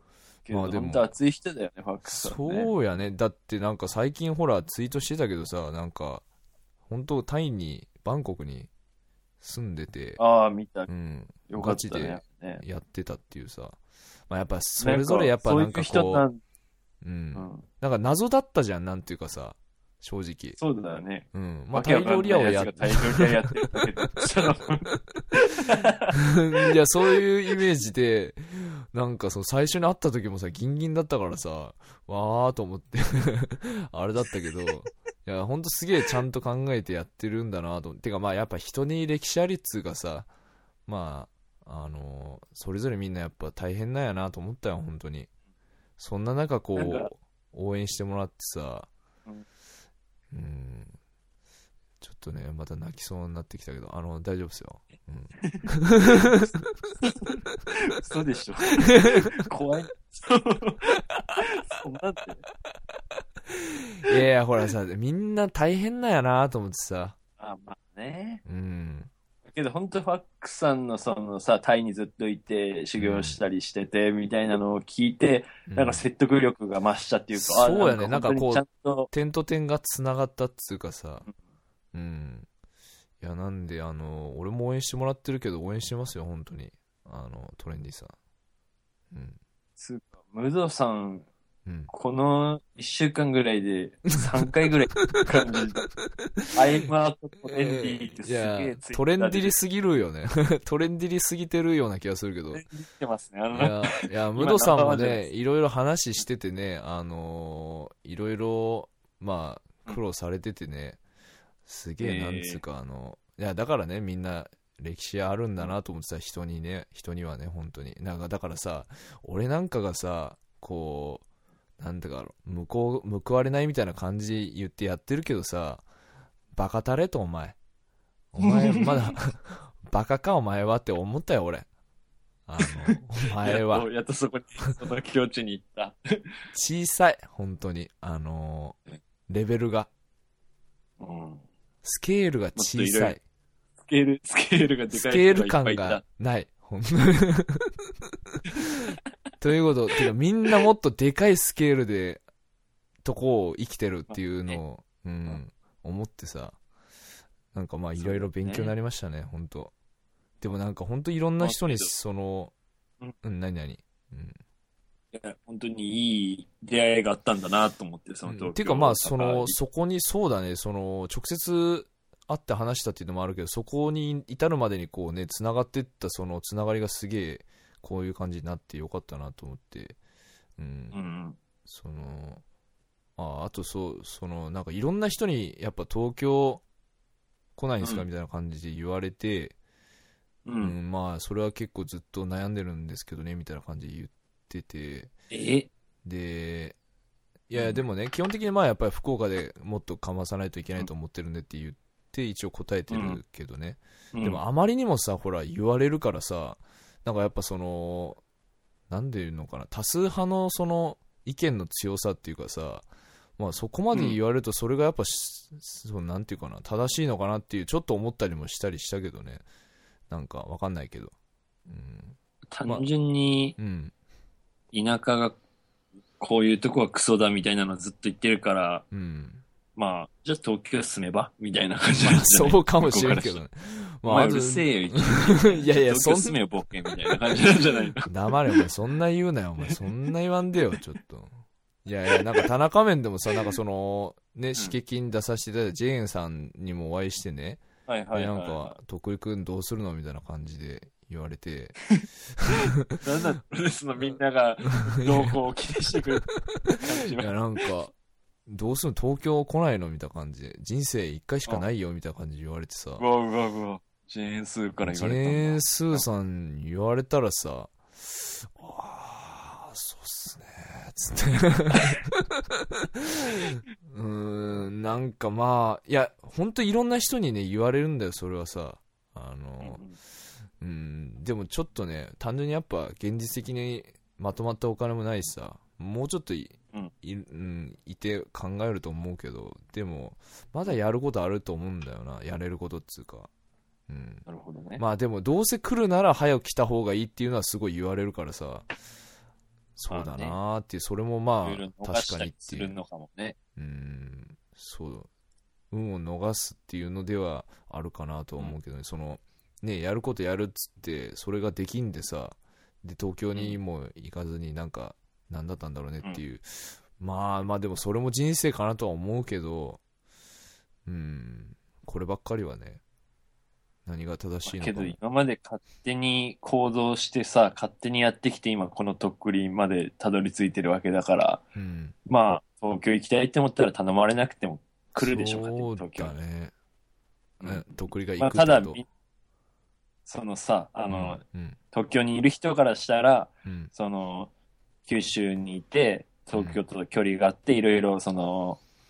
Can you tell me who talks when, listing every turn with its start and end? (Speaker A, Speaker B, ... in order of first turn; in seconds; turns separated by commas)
Speaker A: 0.5-2.7, Speaker B: 0.5-1.1, Speaker B: 2.0-6.2, Speaker B: 6.9-8.7, Speaker B: 9.4-10.2, Speaker A: 10.2-10.9, Speaker B: 10.9-16.3, Speaker A: 11.5-12.6, Speaker A: 14.8-16.4, Speaker B: 17.0-20.6, Speaker A: 17.4-17.6, Speaker A: 20.6-26.1, Speaker B: 21.3-24.2, Speaker B: 25.2-25.6, Speaker B: 26.1-40.3, Speaker B: 40.9-45.3, Speaker B: 46.0-48.9, Speaker A: 46.8-47.1, Speaker B: 50.3-50.9, Speaker B: 52.0-56.9, Speaker A: 55.4-56.5, Speaker A: 57.0-57.3, Speaker A: 57.9-62.4, Speaker B: 58.9-59.3, Speaker B: 63.5-67.2, Speaker A: 67.4-68.4, Speaker B: 68.5-69.1, Speaker A: 69.5-79.1, Speaker B: 73.0-73.4, Speaker B: 75.7-76.0, Speaker B: 77.3-81.3, Speaker B: 81.9-82.5, Speaker B: 83.2-88.2, Speaker B: 89.1-89.4, Speaker A: 89.8-91.3, Speaker B: 91.7-91.9, Speaker A: 91.9-95.9, Speaker B: 94.9-95.2, Speaker B: 95.8-96.5, Speaker A: 96.5-99.6, Speaker B: 97.5-102.6, Speaker A: 102.5-105.3, Speaker B: 103.5-111.0, Speaker B: 111.7-121.2, Speaker A: 112.0-112.6, Speaker B: 121.8-125.8, Speaker B: 126.5-127.6, Speaker B: 128.3-131.7, Speaker A: 128.4-129.2, Speaker B: 132.5-133.9, Speaker A: 132.7-136.3, Speaker B: 136.5-139.9, Speaker A: 141.0-141.4, Speaker B: 141.8-143.2, Speaker A: 142.6-143.2, Speaker A: 143.8-146.0, Speaker B: 144.9-147.7, Speaker B: 148.6-152.2, Speaker B: 153.0-156.6, Speaker A: 154.1-154.6, Speaker B: 157.5-159.7, Speaker A: 158.0-158.7, Speaker B: 160.4-162.5, Speaker A: 161.4-161.9, Speaker B: 163.2-164.4, Speaker A: 165.1-169.6, Speaker B: 168.3-180.0, Speaker B: 180.6-181.0, Speaker A: 180.9-181.4, Speaker B: 181.7-182.4, Speaker B: 183.2-186.6, Speaker B: 187.6-189.6, Speaker A: 190.5-190.8, Speaker B: 190.6-195.1, Speaker A: 195.3-195.7, Speaker B: 196.0-196.8, Speaker B: 197.5-208.2, Speaker A: 197.6-197.8, Speaker A: 202.9-203.2, Speaker A: 204.1-204.4, Speaker B: 208.9-219.4, Speaker A: 213.9-214.2, Speaker B: 220.1-221.1, Speaker B: 221.7-222.9, Speaker A: 222.5-223.6, Speaker B: 223.6-223.9, Speaker A: 224.7-225.4, Speaker A: 226.2-228.8, Speaker B: 228.9-229.4, Speaker A: 229.8-233.4, Speaker B: 232.0-237.2, Speaker A: 234.1-238.7, Speaker B: 238.1-251.8, Speaker A: 247.9-248.8, Speaker B: 252.4-253.0, Speaker A: 252.9-256.3, Speaker B: 255.0-255.4, Speaker B: 256.7-257.9, Speaker A: 256.8-257.4, Speaker B: 258.5-263.1, Speaker A: 263.0-266.1, Speaker B: 264.8-279.9, Speaker A: 279.6-280.0, Speaker B: 280.6-293.3, Speaker B: 293.9-294.2, Speaker A: 294.3-294.8, Speaker B: 294.8-298.7, Speaker B: 299.8-302.8, Speaker A: 299.9-300.4, Speaker A: 301.4-303.4, Speaker B: 303.6-305.1, Speaker B: 305.7-319.8, Speaker B: 320.9-322.8, Speaker B: 323.9-325.0, Speaker A: 324.4-331.4, Speaker B: 331.6-331.9, Speaker A: 332.1-336.2, Speaker B: 335.0-336.5, Speaker A: 337.4-337.7, Speaker B: 337.4-338.8, Speaker A: 338.2-338.9, Speaker A: 340.1-344.3, Speaker B: 340.9-341.6, Speaker B: 343.5-343.7, Speaker A: 344.9-348.6, Speaker B: 346.3-346.6